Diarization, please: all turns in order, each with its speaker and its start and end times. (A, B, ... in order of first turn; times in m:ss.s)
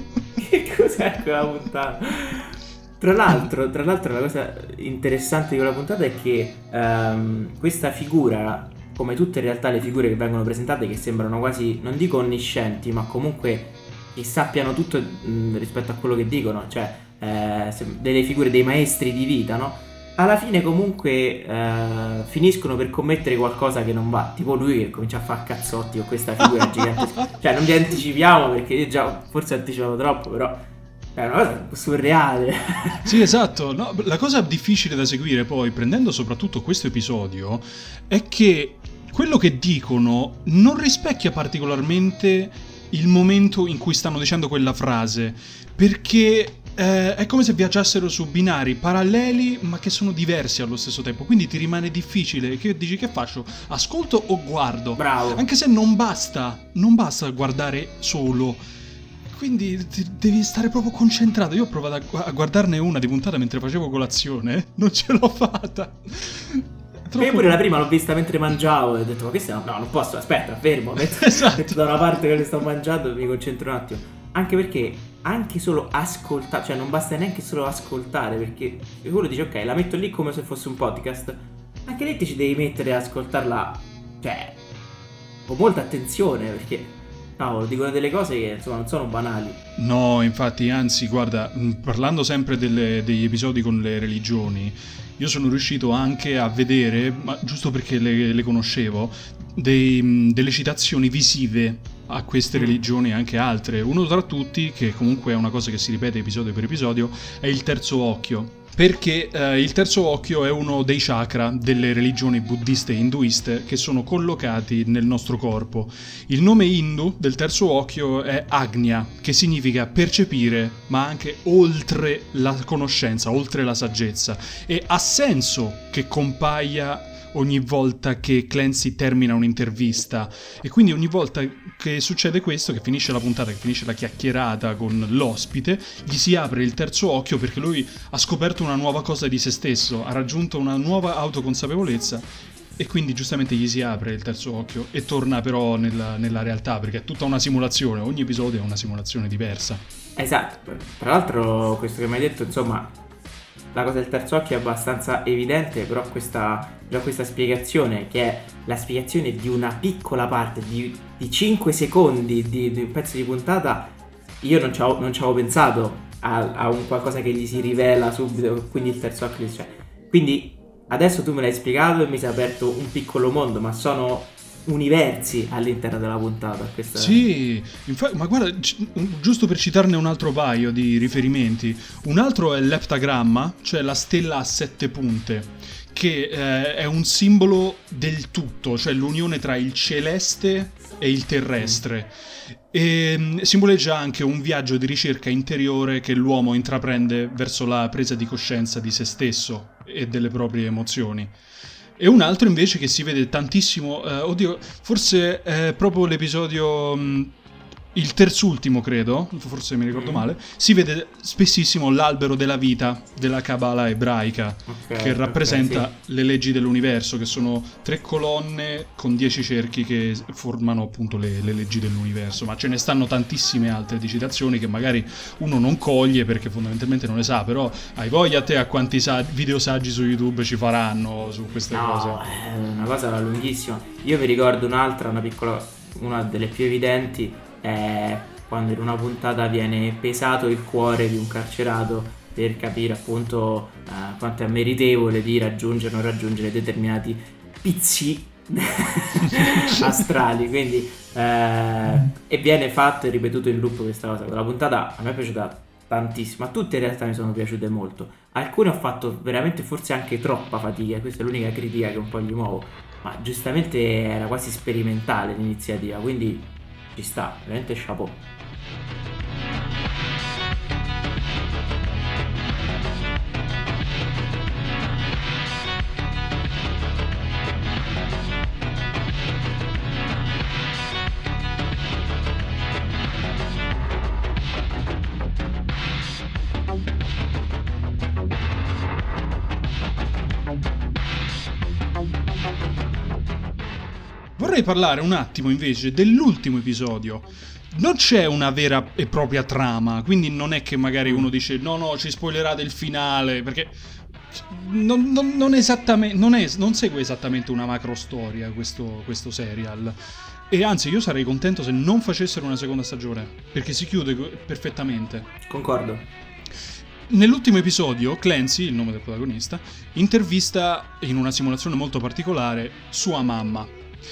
0:00.4-0:30.6 A
0:31.1-0:33.2 A
0:33.0-0:58.6 B
0:55.0-0:55.4 A
0:59.3-1:07.6 B
1:07.2-1:24.6 A
1:11.1-1:11.8 B
1:25.5-1:29.6 A
1:29.8-2:29.8 B
1:42.5-1:42.8 A
2:30.2-2:32.9 A
2:33.7-2:57.2 A
2:56.9-3:21.3 B
3:22.0-3:27.3 B
3:27.9-3:52.2 B
3:29.9-3:30.2 A
3:34.7-3:35.9 A
3:51.7-4:28.2 A
4:09.4-4:09.8 B
4:54.4-5:03.8 B
5:01.0-5:01.3 A
5:04.3-5:10.0 B
5:10.5-5:15.3 B
5:15.4-5:16.1 A
5:17.1-5:23.7 B